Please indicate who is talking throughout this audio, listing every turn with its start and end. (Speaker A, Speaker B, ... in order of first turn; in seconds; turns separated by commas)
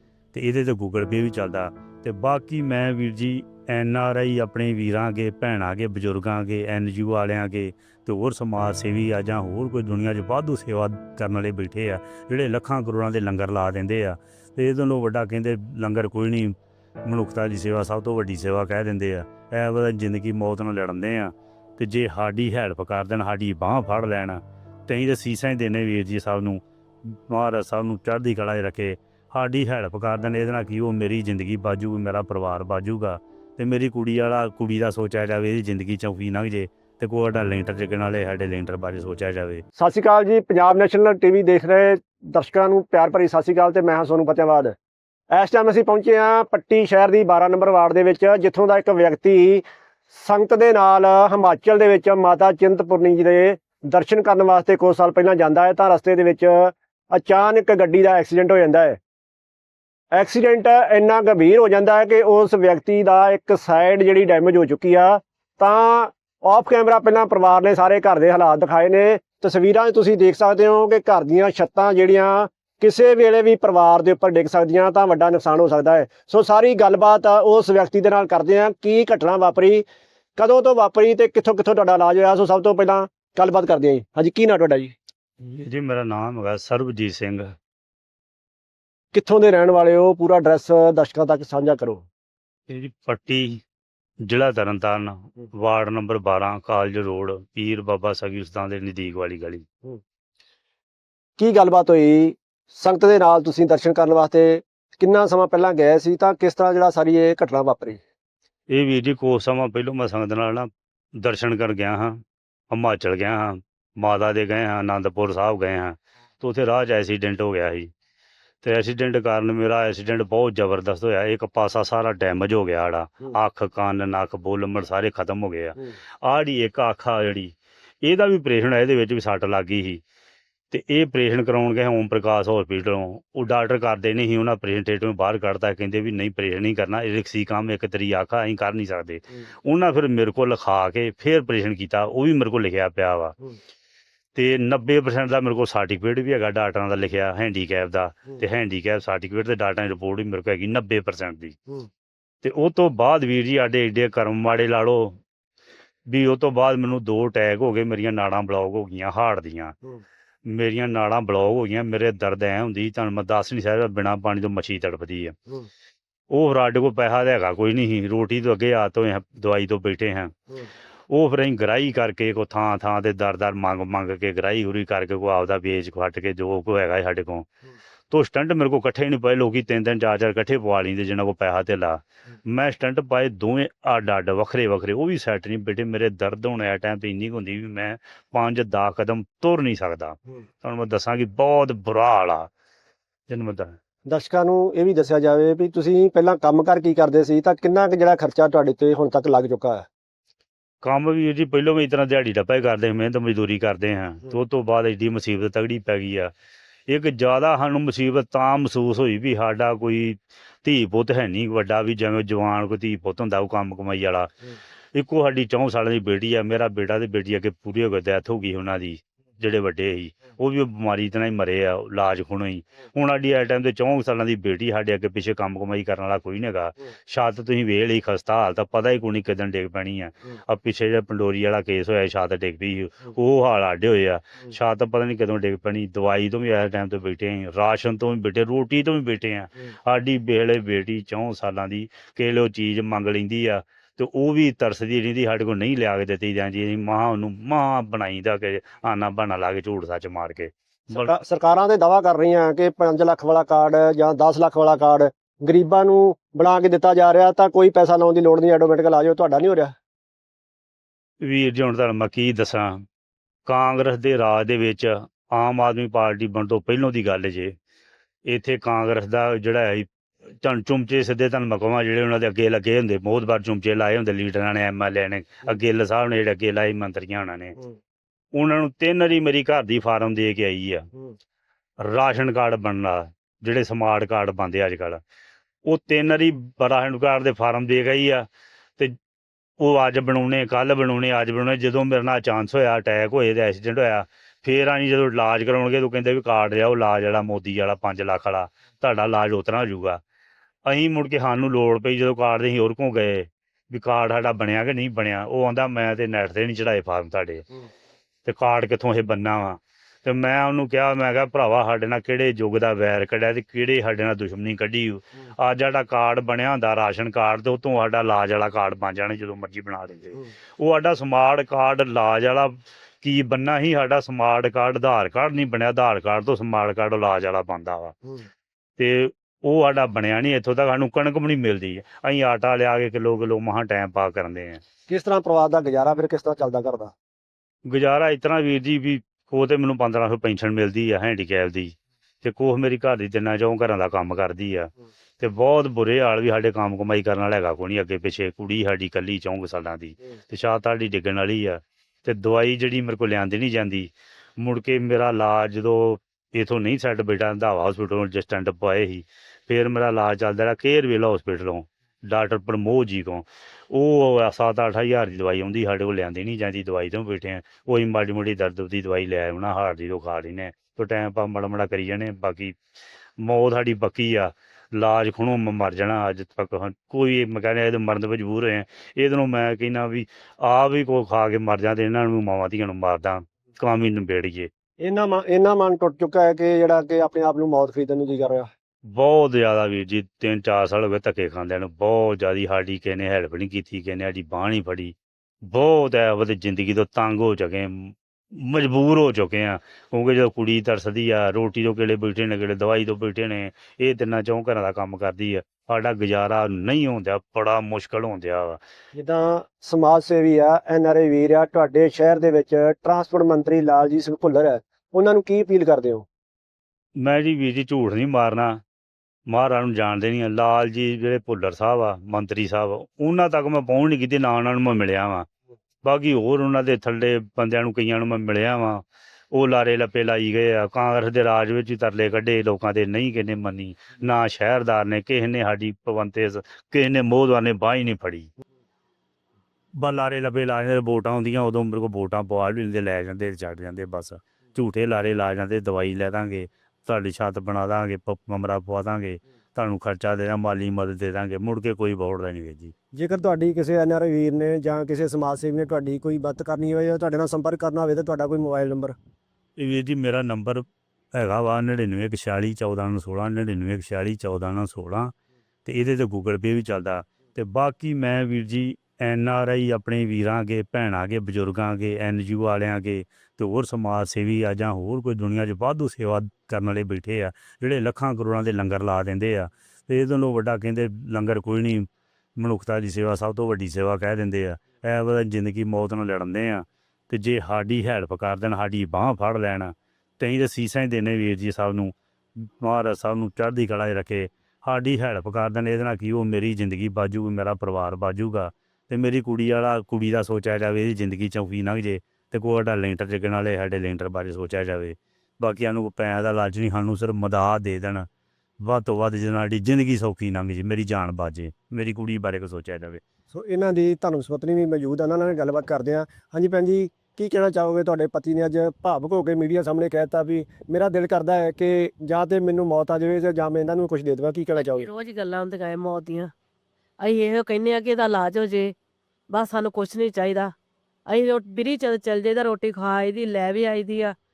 Speaker A: 0.3-39.6, Speaker B: 39.8-44.7, Speaker B: 45.3-59.0, Speaker B: 60.1-79.8, Speaker B: 80.4-84.9, Speaker A: 85.5-87.5, Speaker B: 89.1-92.0, Speaker A: 92.7-93.6, Speaker A: 94.2-99.6, Speaker B: 101.4-108.0, Speaker A: 108.7-112.2, Speaker A: 112.7-117.9, Speaker A: 118.6-130.0, Speaker A: 130.7-143.3, Speaker A: 144.3-151.5, Speaker A: 152.4-155.2, Speaker A: 156.1-159.7, Speaker A: 160.5-165.3, Speaker A: 166.3-170.3, Speaker A: 171.1-177.5, Speaker A: 178.1-192.5, Speaker A: 193.3-193.8, Speaker B: 194.1-199.8, Speaker A: 200.8-206.3, Speaker A: 206.9-214.3, Speaker A: 214.9-251.1, Speaker B: 250.9-259.7, Speaker A: 261.2-262.8, Speaker A: 263.4-267.5, Speaker A: 268.3-269.9, Speaker A: 270.4-277.6, Speaker A: 278.3-280.9, Speaker A: 281.8-285.0, Speaker A: 285.7-288.9, Speaker A: 289.6-300.0, Speaker A: 300.6-307.4, Speaker A: 308.2-327.9, Speaker A: 328.8-334.6, Speaker B: 334.9-336.9, Speaker A: 337.6-372.6, Speaker A: 373.2-384.5, Speaker B: 384.8-388.5, Speaker A: 388.9-408.6, Speaker B: 408.9-416.1, Speaker A: 417.0-418.6, Speaker A: 419.3-425.2, Speaker A: 425.8-438.3, Speaker A: 439.8-452.7, Speaker B: 452.9-458.9, Speaker A: 459.6-465.1, Speaker A: 465.6-508.1, Speaker A: 508.6-513.0, Speaker B: 513.3-524.9, Speaker C: 524.5-526.3, Speaker C: 527.0-528.7, Speaker C: 529.3-530.5, Speaker C: 531.0-534.1